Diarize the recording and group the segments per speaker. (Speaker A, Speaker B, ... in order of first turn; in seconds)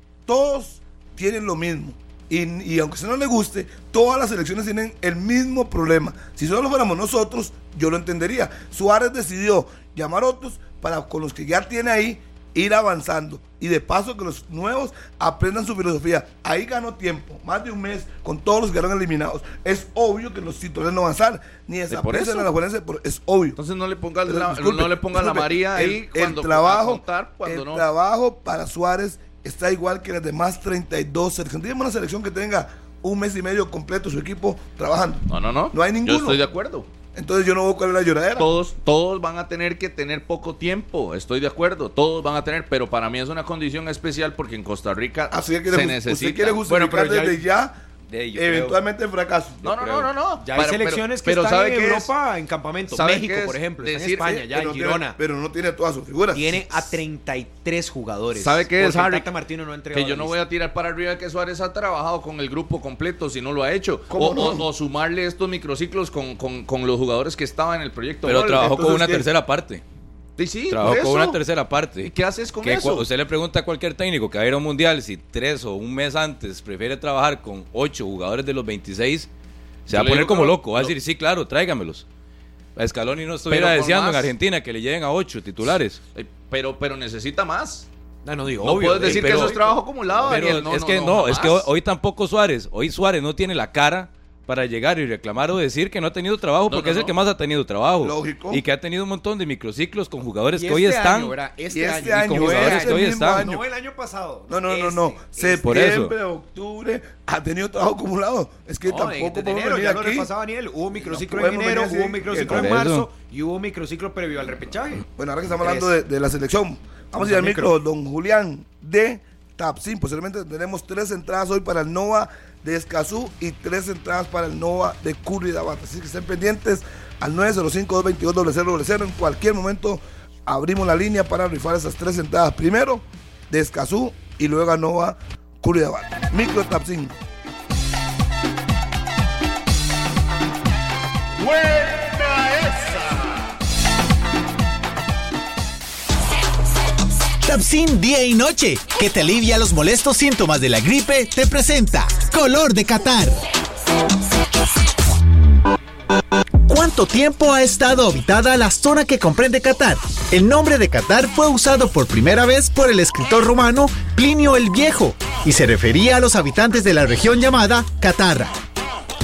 Speaker A: 0.2-23.6, 24.2-36.4, 37.1-38.5, 45.3-47.8, 48.3-49.6, 54.5-56.7, 64.1-64.7, 68.3-69.2, 98.0-98.6, 101.7-103.6, 104.5-110.3, 110.9-112.7, 115.2-137.1
Speaker B: 21.9-22.5, 23.6-27.9, 35.3-36.9, 38.4-46.6, 49.6-52.1, 52.9-54.5, 58.3-59.3, 59.9-68.8, 70.4-71.4, 72.0-73.0, 79.9-80.9, 83.5-84.3, 85.6-87.9, 88.6-91.7, 96.7-97.1
Speaker C: 46.7-47.4, 50.4-55.2, 56.3-60.4, 88.2-89.8, 100.5-105.6, 108.8-115.0, 115.6-115.9, 117.2-117.7
Speaker D: 48.1-48.8, 49.6-50.1, 68.2-69.8, 70.7-72.1, 72.6-79.3, 79.9-82.0, 82.8-86.0, 89.0-89.6, 90.2-101.3, 101.9-103.5, 105.6-106.1, 112.4-113.1
Speaker E: 147.4-153.4, 156.7-168.5